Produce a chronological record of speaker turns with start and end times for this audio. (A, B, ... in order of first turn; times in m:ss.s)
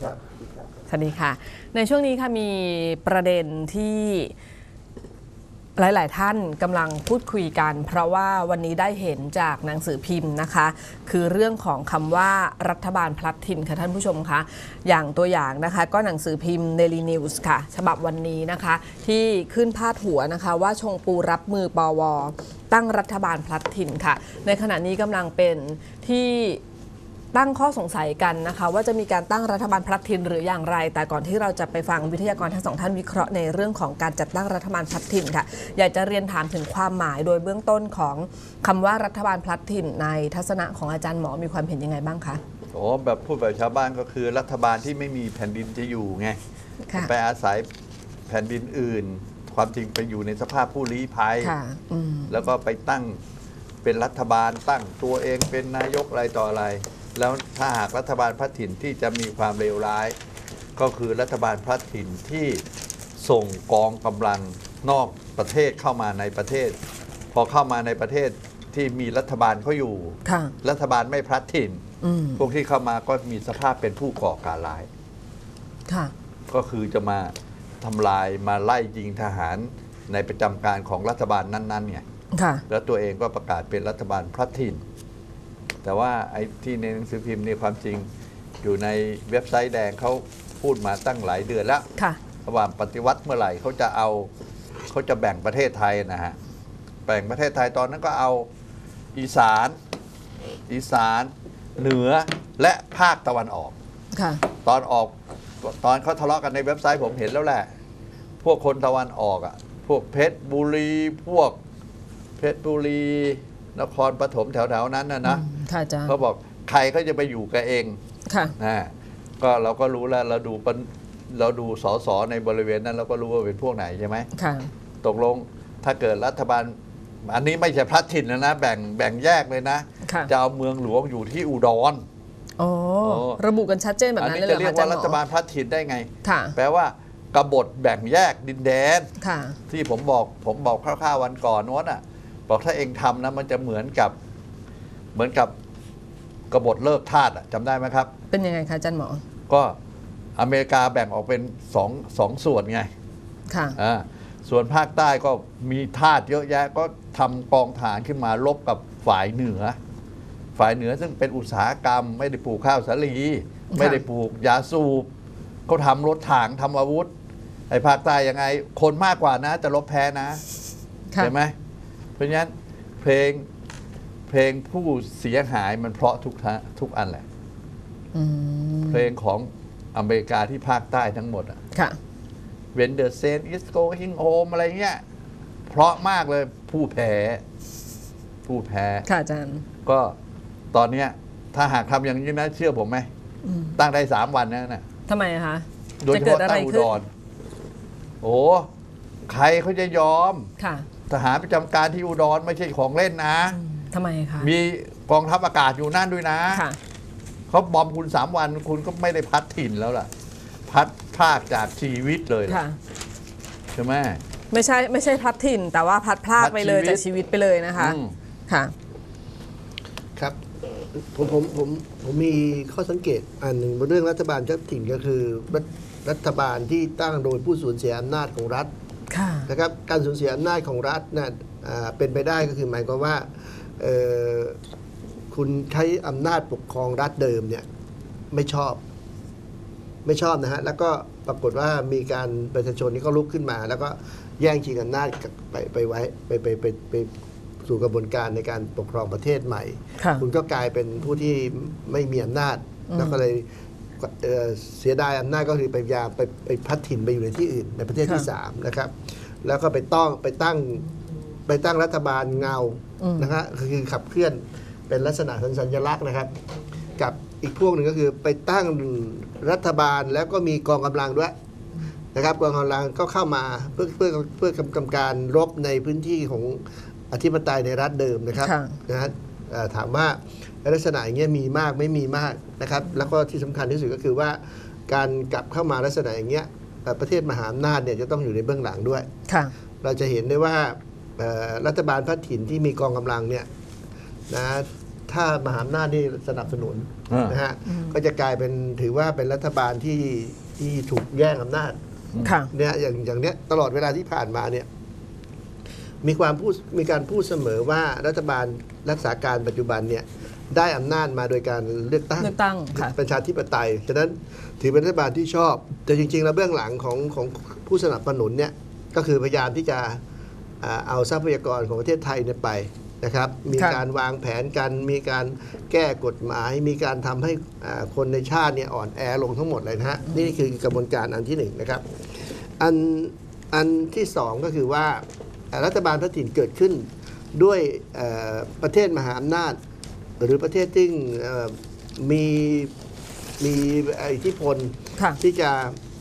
0:00.9-0:04.3 A
0:05.8-0:26.6 A
0:27.3-0:42.4 A
0:42.7-0:46.4 B
0:46.8-0:47.1 A
0:46.9-0:47.7 B
0:48.3-0:51.5 B
0:51.4-0:52.4 A
0:52.3-0:53.2 B
0:53.8-1:00.2 B
1:00.8-1:02.6 B
1:03.2-1:06.8 B
1:07.3-1:11.8 B
1:10.2-1:10.6 A
1:12.0-1:12.4 A
1:12.4-1:14.9 B
1:15.9-1:16.1 A
1:16.5-1:22.0 B
1:22.3-1:22.6 A
1:22.7-1:24.8 B
1:25.8-1:28.1 B
1:28.6-1:31.8 B
1:32.4-1:34.3 B
1:34.9-1:36.4 B
1:37.1-1:38.5 B
1:39.2-1:39.8 B
1:40.7-1:43.7 B
1:44.1-1:44.4 A
1:44.6-1:47.7 B
1:48.4-1:51.6 B
1:52.4-1:55.4 B
1:55.2-1:56.2 A
1:56.1-1:58.0 B
1:58.3-1:58.6 A
1:58.6-2:04.3 B
2:04.3-2:04.7 A
2:05.0-2:12.0 B
2:10.0-2:10.3 A
2:12.6-2:15.2 A
2:13.0-2:13.4 B
2:14.2-2:19.1 B
2:16.2-2:16.6 A
2:19.2-2:19.6 A
2:19.7-2:24.2 B
2:25.2-2:25.5 B
2:26.5-2:28.1 B
2:28.3-2:29.2 A
2:29.5-2:29.8 B
2:30.4-2:32.9 B
2:33.5-2:33.8 A
2:33.8-2:39.8 B
2:40.6-2:45.1 B
2:43.7-2:44.0 A
2:45.7-2:47.1 B
2:47.7-2:50.4 B
2:51.2-2:51.5 B
2:52.2-2:53.5 B
2:54.3-2:57.2 B
2:58.1-2:59.1 A
2:58.9-3:01.6 B
3:01.7-3:02.0 A
3:02.7-3:05.0 B
3:05.7-3:07.4 B
3:08.5-3:09.1 B
3:09.0-3:09.6 A
3:09.8-3:10.2 B
3:10.7-3:13.1 B
3:13.4-3:13.8 A
3:13.8-3:14.8 B
3:15.1-3:17.0 A
3:16.0-3:17.0 B
3:18.2-3:18.7 B
3:19.3-3:20.5 B
3:20.6-3:20.9 A
3:21.1-3:23.6 B
3:23.5-3:24.5 A
3:24.4-3:26.6 B
3:26.5-3:26.8 A
3:27.5-3:30.1 B
3:30.7-3:32.6 B
3:32.5-3:32.8 A
3:33.8-3:34.2 B
3:34.5-3:38.7 A
3:36.4-3:37.0 B
3:37.8-3:38.2 B
3:41.0-3:48.7 C
3:49.1-3:49.5 A
3:49.5-3:53.3 C
3:53.8-3:54.6 C
3:55.3-3:57.6 C
3:58.3-3:58.8 C
4:00.0-4:07.1 C
4:07.6-4:13.5 C
4:10.0-4:10.2 A
4:12.9-4:13.2 A
4:14.0-4:18.9 C
4:18.0-4:18.3 A
4:19.4-4:20.9 C
4:21.5-4:26.3 C
4:23.0-4:23.4 A
4:27.0-4:31.3 C
4:32.1-4:49.1 C
4:38.4-4:38.8 A
4:49.3-4:49.5 A
4:49.8-4:53.5 C
4:54.3-5:01.8 C
4:57.1-4:57.4 B
4:57.7-4:58.0 A
5:02.2-5:02.5 A
5:02.5-5:04.7 C
5:06.0-5:20.0 C
5:12.2-5:12.9 A
5:20.6-5:31.8 C
5:23.5-5:23.8 A
5:32.6-5:39.6 C
5:40.2-5:42.7 C
5:43.4-5:45.8 C